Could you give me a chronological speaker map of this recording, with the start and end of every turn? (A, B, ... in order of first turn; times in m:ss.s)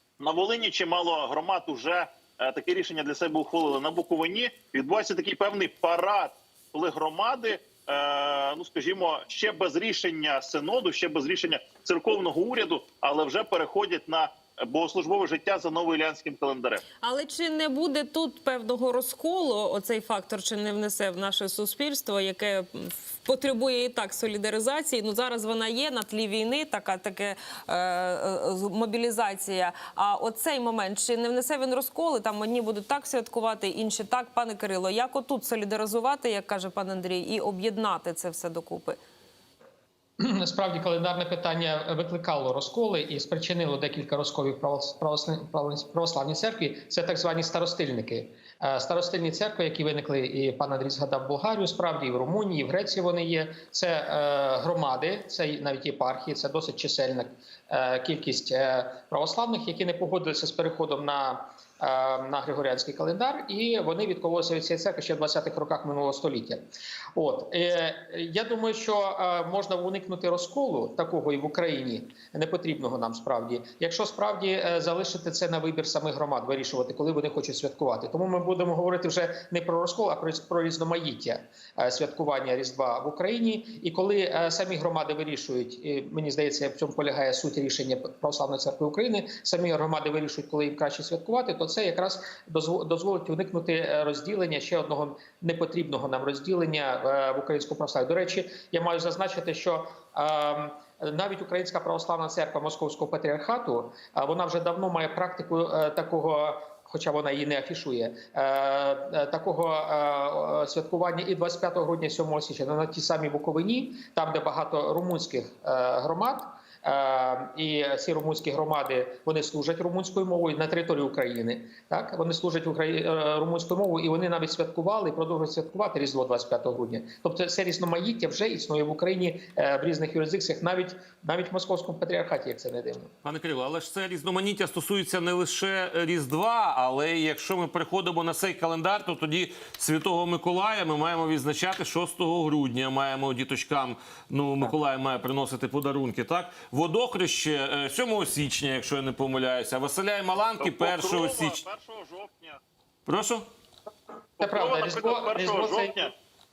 0:00.2-0:16.8 A
0:17.0-0:39.0 B
0:40.2-1:06.6 C
1:07.2-2:13.1 C
2:13.2-2:31.6 D
2:30.6-2:32.6 A
2:33.1-2:33.4 D
2:34.4-2:36.1 A
2:34.4-2:36.0 C